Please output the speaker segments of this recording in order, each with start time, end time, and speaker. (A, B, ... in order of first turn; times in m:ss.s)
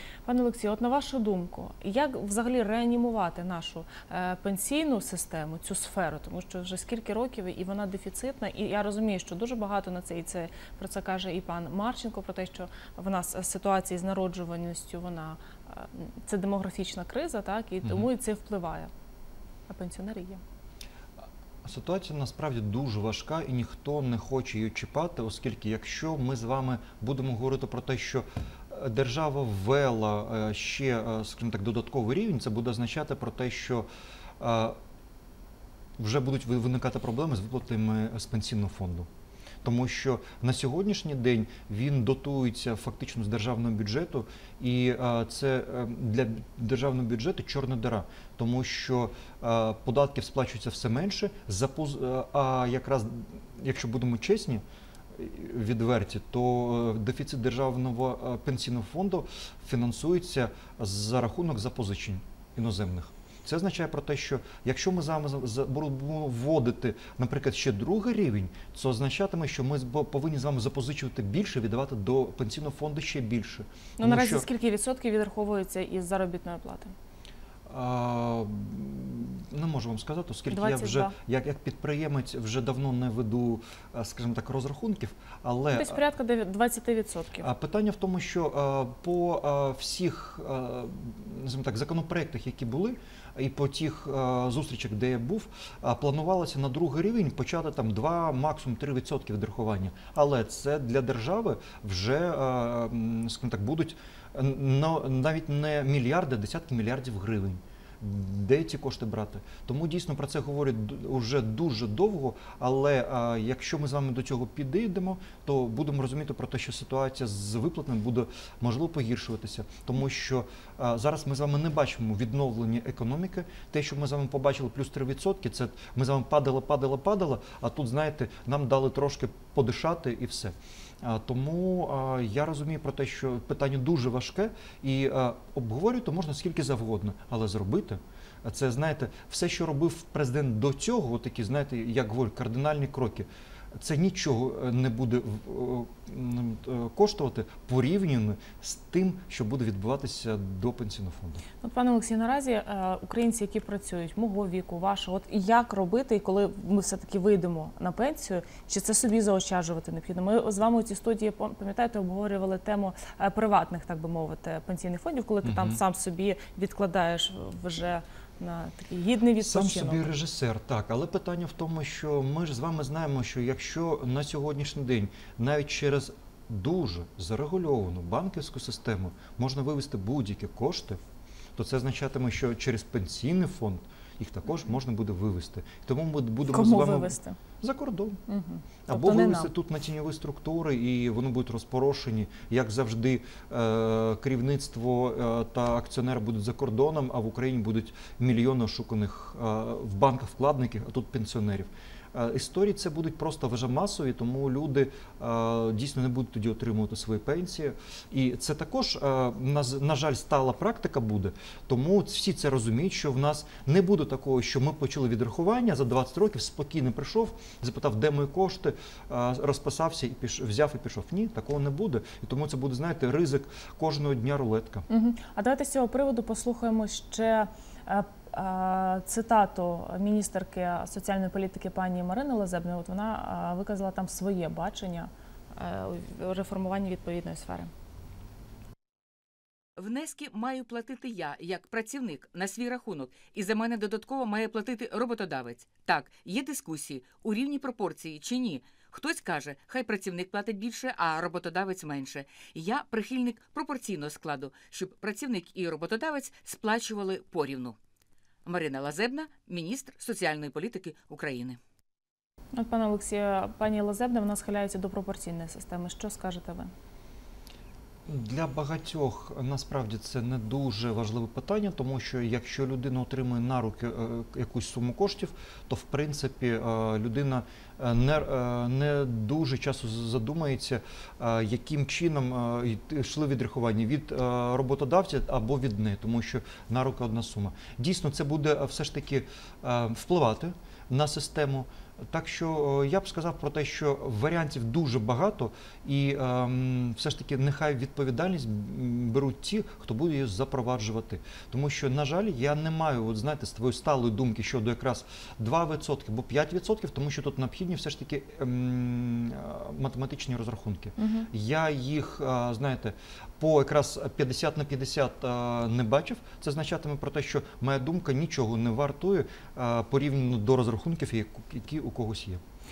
0:00.2-0:18.9 A
0:17.8-0:18.1 B
0:19.7-0:20.4 A
0:21.6-0:33.8 B
0:34.4-0:34.8 B
0:36.0-0:39.1 B
0:39.6-1:14.5 B
1:14.0-1:16.9 A
1:17.7-1:26.0 B
1:20.5-1:21.1 A
1:25.7-1:27.5 A
1:27.4-2:31.4 B
2:31.6-2:50.1 A
2:45.4-2:45.8 B
2:49.4-3:01.0 B
3:01.6-3:08.2 B
3:06.5-3:07.4 A
3:08.3-3:09.5 A
3:08.9-3:44.8 B
3:44.9-3:57.7 A
3:59.8-4:17.8 C
4:18.4-4:21.6 C
4:22.6-4:26.7 A
4:28.1-5:22.4 B
5:11.0-5:11.3 A